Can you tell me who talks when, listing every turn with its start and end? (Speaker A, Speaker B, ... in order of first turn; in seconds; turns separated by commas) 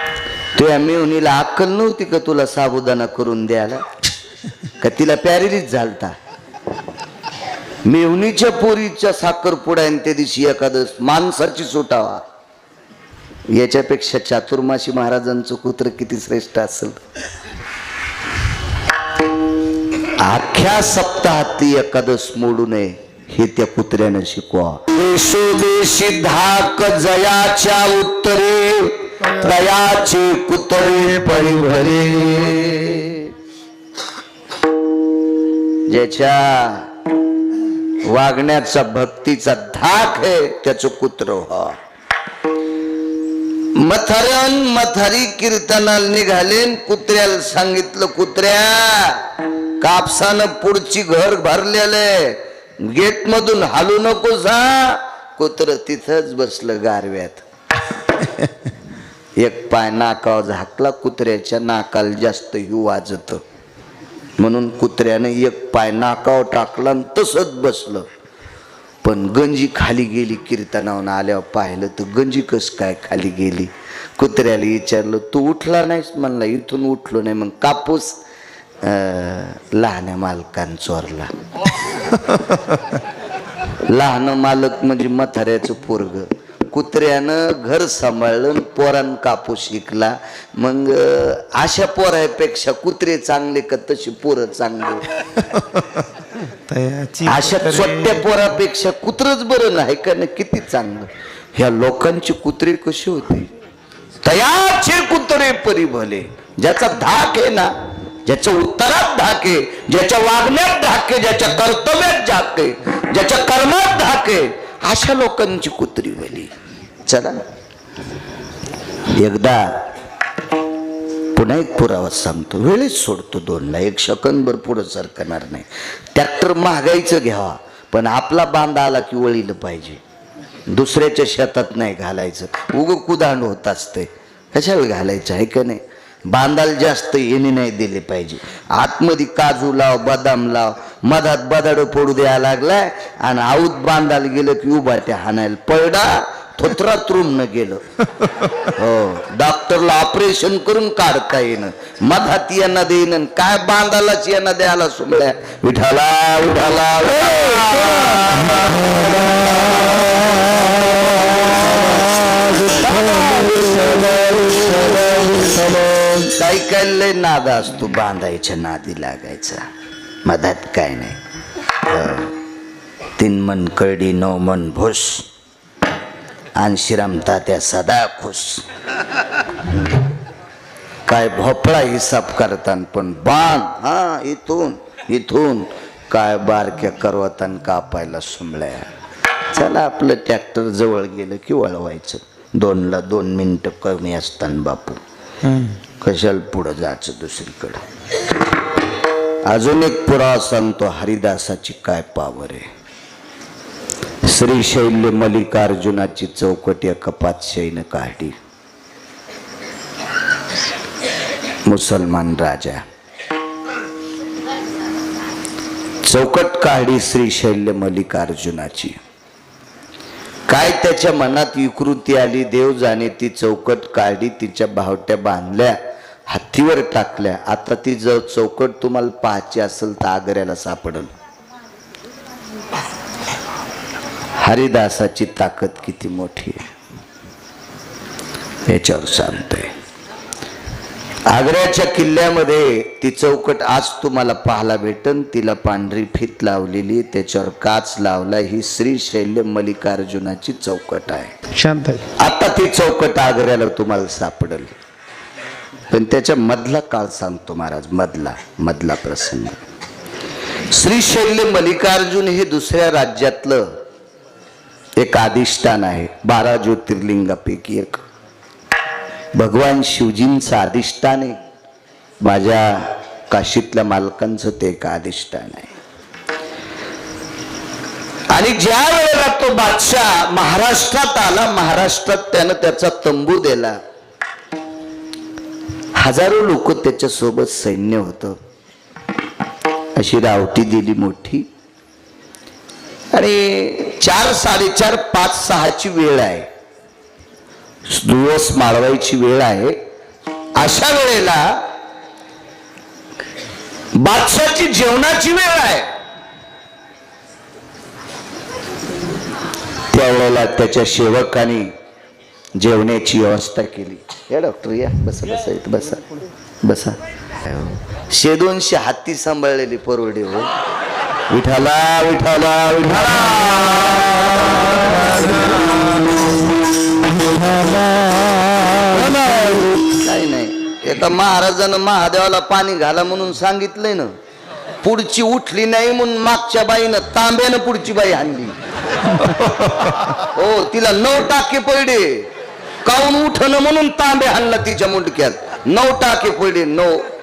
Speaker A: 0.5-3.8, Speaker A: 4.8-6.1, Speaker A: 7.8-12.2, Speaker A: 13.5-17.0, Speaker A: 20.2-33.3, Speaker A: 35.9-36.9, Speaker A: 38.0-41.8, Speaker A: 43.8-57.4, Speaker A: 59.4-63.4, Speaker A: 64.4-68.1, Speaker A: 69.0-78.2, Speaker A: 78.8-81.3, Speaker A: 83.9-95.0, Speaker B: 95.5-95.8, Speaker B: 96.5-98.2, Speaker A: 97.2-103.5, Speaker A: 104.2-107.7, Speaker A: 108.2-116.5, Speaker A: 117.0-117.3, Speaker A: 119.1-119.9, Speaker A: 121.3-130.0, Speaker A: 130.7-147.8, Speaker A: 148.7-160.0, Speaker B: 157.6-160.2, Speaker B: 161.6-166.3, Speaker A: 162.8-163.7, Speaker A: 166.3-169.6, Speaker A: 170.2-171.2, Speaker A: 171.9-172.4, Speaker A: 173.2-175.3, Speaker A: 176.6-178.6, Speaker A: 181.1-188.9, Speaker A: 189.5-195.0, Speaker B: 195.5-195.7, Speaker A: 196.0-197.8, Speaker A: 199.5-202.6, Speaker A: 204.2-208.3, Speaker A: 211.7-212.8, Speaker A: 216.0-219.0, Speaker A: 220.5-231.1, Speaker A: 234.4-236.6, Speaker A: 238.7-239.7, Speaker A: 241.3-251.3, Speaker B: 251.5-252.1, Speaker A: 252.2-254.7, Speaker A: 255.9-259.6, Speaker A: 260.7-263.8, Speaker A: 265.0-268.0, Speaker A: 269.3-271.4, Speaker A: 272.2-275.7, Speaker A: 278.3-283.8, Speaker A: 286.0-288.4, Speaker A: 289.9-291.4, Speaker A: 293.1-296.5, Speaker A: 297.9-299.8, Speaker A: 300.6-301.6, Speaker A: 303.9-305.9, Speaker A: 309.9-311.7, Speaker A: 312.6-316.0, Speaker A: 316.6-317.0, Speaker A: 318.1-320.5, Speaker A: 321.3-325.6, Speaker B: 328.7-329.7, Speaker A: 329.0-334.1, Speaker A: 334.8-338.6, Speaker B: 339.4-339.6, Speaker A: 340.2-342.3, Speaker A: 342.8-347.1